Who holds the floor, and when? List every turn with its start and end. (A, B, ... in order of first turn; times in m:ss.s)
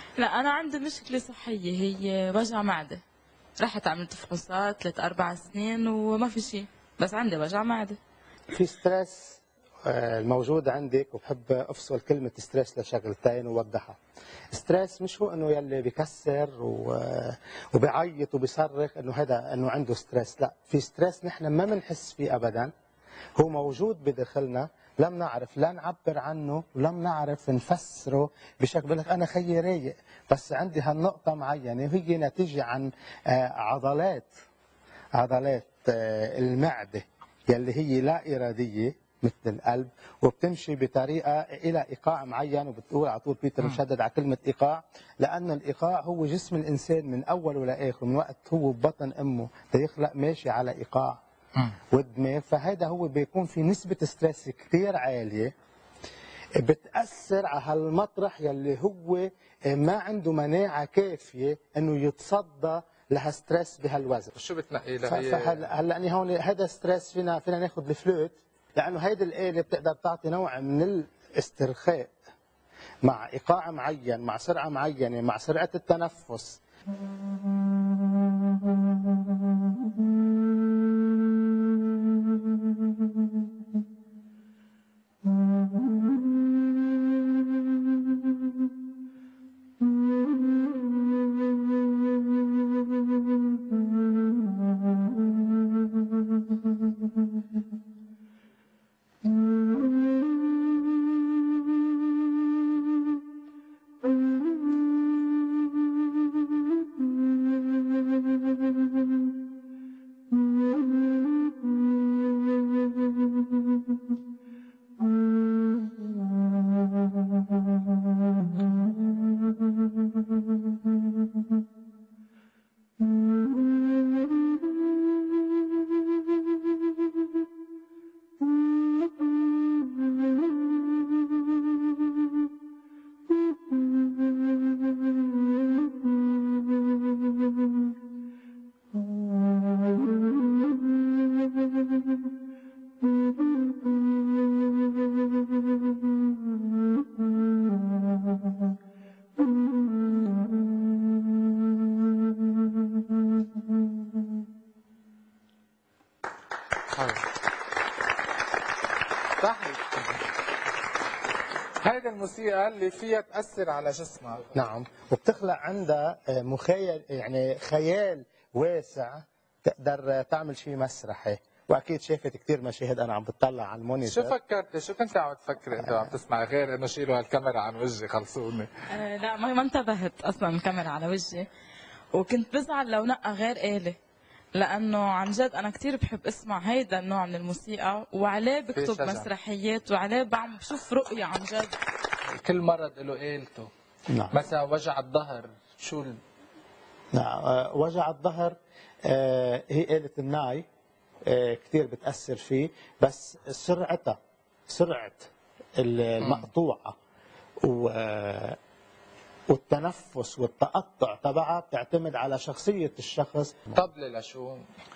0:00.2-0:03.0 A
0:03.6-0:08.0 A
0:08.5-0:14.0 B
0:14.5-0:22.7 B
0:23.4-0:34.3 B
0:35.1-0:51.2 B
0:51.9-0:55.5 B
0:56.6-1:04.3 B
1:04.3-1:05.7 C
1:05.0-1:12.2 B
1:13.0-1:16.6 B
2:36.9-2:37.2 C
2:39.4-2:40.0 C
2:41.8-2:44.5 C
2:44.5-2:54.4 B
2:54.0-2:58.7 C
2:55.8-2:56.1 B
2:58.9-3:01.5 A
3:02.1-3:04.0 A
3:04.5-3:11.8 A
3:08.7-3:09.3 C
3:12.3-3:13.7 C
3:14.1-3:14.4 B
3:14.3-3:16.2 C
3:17.1-3:20.7 B
3:21.2-3:24.2 B
3:24.7-3:27.0 B
3:26.2-3:26.5 C
3:27.6-3:28.6 B
3:29.5-3:33.8 B
3:33.7-3:34.7 C